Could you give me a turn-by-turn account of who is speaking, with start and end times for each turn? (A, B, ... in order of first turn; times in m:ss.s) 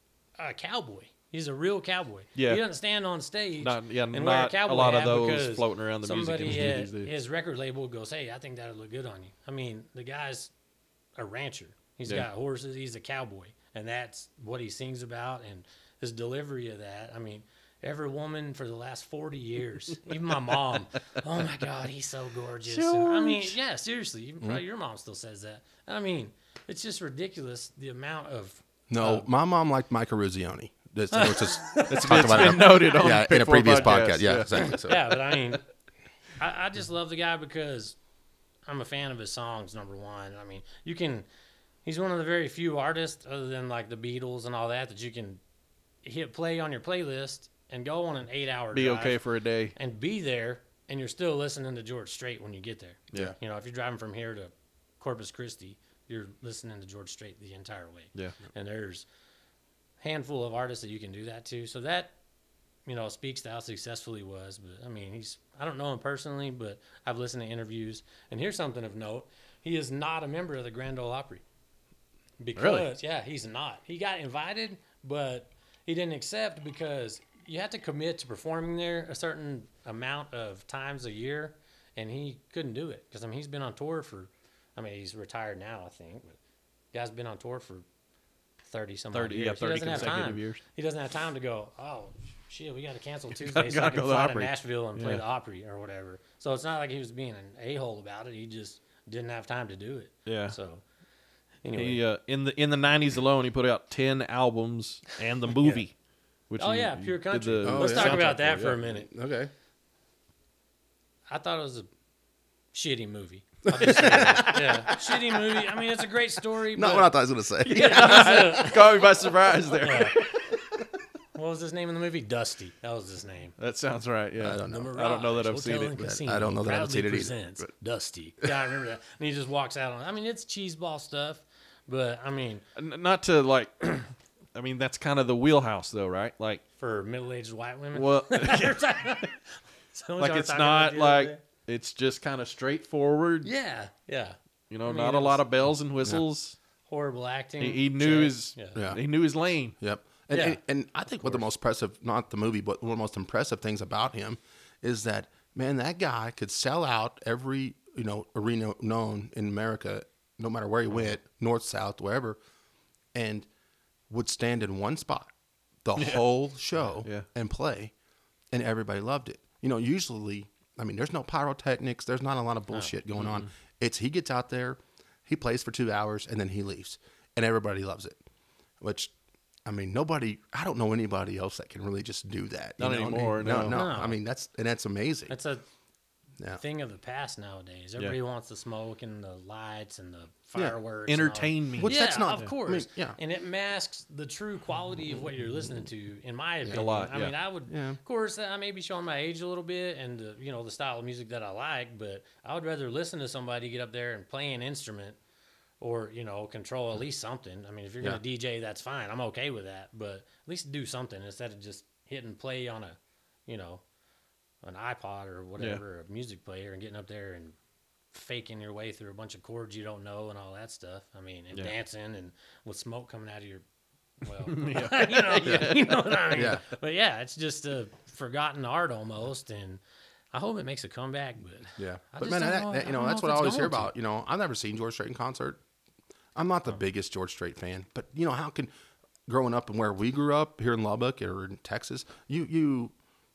0:00.4-0:10.5 A
0:02.4-0:02.6 B
0:03.6-0:07.1 B
0:11.2-0:29.2 A
0:22.7-0:23.5 B
0:28.9-0:35.2 C
0:31.1-0:32.7 A
0:31.9-0:34.7 B
0:34.6-0:35.6 A
0:36.4-0:38.0 A
0:38.6-0:41.3 A
0:41.8-0:45.4 A
0:46.0-0:49.2 A
0:48.7-0:49.7 B
0:49.8-0:59.0 A
1:00.0-1:02.1 A
1:02.8-1:11.4 A
1:12.4-1:26.4 A
1:12.6-1:12.9 B
1:26.9-1:27.8 A
1:28.6-1:40.8 A
1:29.1-1:30.6 B
1:33.3-1:35.2 B
1:40.2-1:40.6 B
1:41.6-1:42.0 A
1:41.7-1:45.9 B
1:46.5-1:48.7 B
1:46.6-1:49.1 A
1:47.6-1:49.5 C
1:51.3-1:51.9 A
1:52.7-1:57.1 A
1:53.7-1:54.8 C
1:53.8-1:55.0 B
1:56.7-1:58.7 C
1:57.6-2:00.3 B
1:57.6-1:59.1 A
1:59.8-2:00.3 A
2:01.3-2:03.5 A
2:03.6-2:06.0 B
2:04.4-2:05.0 C
2:04.6-2:12.6 A
2:06.0-2:07.4 C
2:12.8-2:16.6 B
2:16.8-2:21.4 A
2:17.9-2:18.8 B
2:20.2-2:23.5 B
2:23.4-2:25.4 A
2:24.7-2:26.6 B
2:26.9-2:28.8 A
2:27.6-2:29.7 B
2:28.7-2:29.0 C
2:29.8-2:42.4 C
2:30.3-2:30.6 A
2:43.1-2:43.5 C
2:44.1-2:45.3 C
2:45.8-2:47.9 C
2:46.0-2:46.2 B
2:47.0-2:47.2 B
2:48.5-2:58.2 C
2:53.2-2:53.5 B
2:58.8-2:59.1 C
2:59.6-3:05.3 C
3:02.8-3:03.8 B
3:03.5-3:04.2 A
3:05.3-3:05.6 A
3:06.6-3:25.2 A
3:11.1-3:12.5 B
3:11.8-3:13.2 C
3:16.6-3:16.9 C
3:16.7-3:17.3 B
3:17.7-3:18.0 C
3:25.8-3:33.8 A
3:34.6-3:37.6 A
3:38.1-3:43.6 A
3:44.2-3:49.8 A
3:44.4-3:46.1 B
3:46.3-3:46.6 C
3:50.3-3:53.9 A
3:51.8-3:55.6 C
3:56.3-3:58.7 C
3:59.3-4:02.9 C